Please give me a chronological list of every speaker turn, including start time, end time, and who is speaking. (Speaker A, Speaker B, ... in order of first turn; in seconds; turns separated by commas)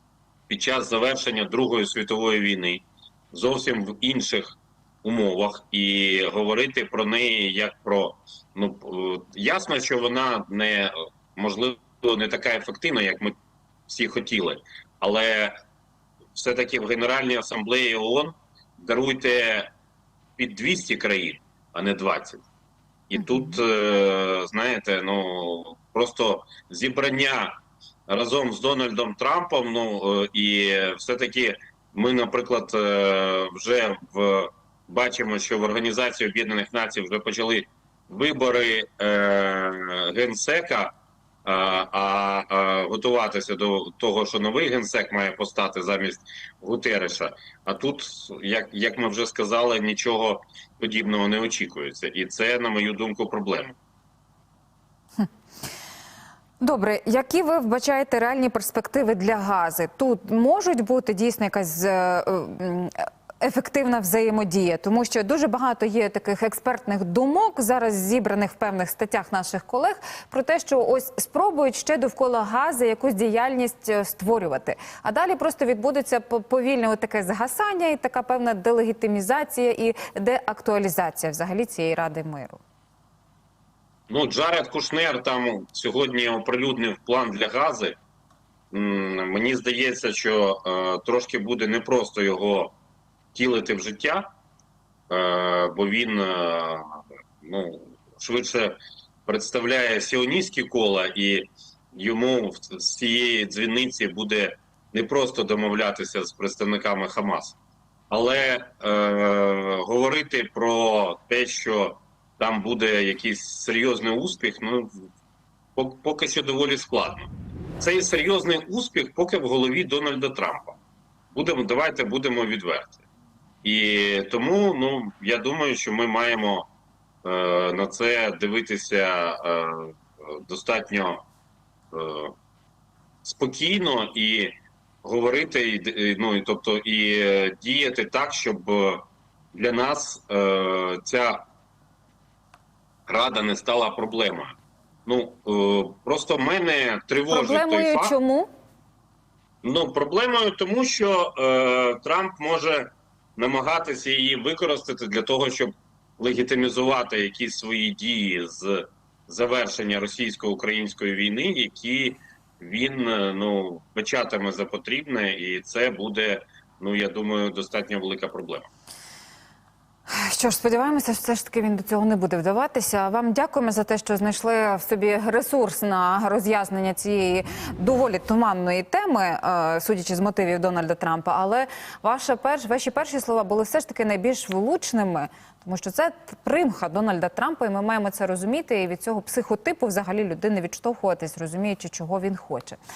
Speaker A: 0.5-13.3, Speaker A: 13.9-15.6, Speaker A: 16.3-19.7, Speaker A: 20.4-22.4, Speaker A: 23.1-27.6, Speaker B: 23.2-23.6, Speaker A: 28.1-40.9, Speaker A: 41.5-53.8, Speaker B: 56.6-82.6, Speaker A: 84.1-88.0, Speaker A: 88.7-92.8, Speaker A: 93.3-94.3, Speaker A: 95.1-107.6, Speaker A: 108.1-115.1, Speaker A: 115.8-120.8, Speaker A: 121.3-123.0, Speaker A: 123.6-126.7, Speaker A: 127.2-131.2, Speaker A: 131.9-132.3, Speaker A: 133.2-134.5, Speaker A: 135.0-141.4, Speaker A: 143.1-144.6, Speaker A: 145.1-148.1, Speaker B: 147.3-148.5, Speaker A: 149.6-168.7, Speaker B: 170.1-192.8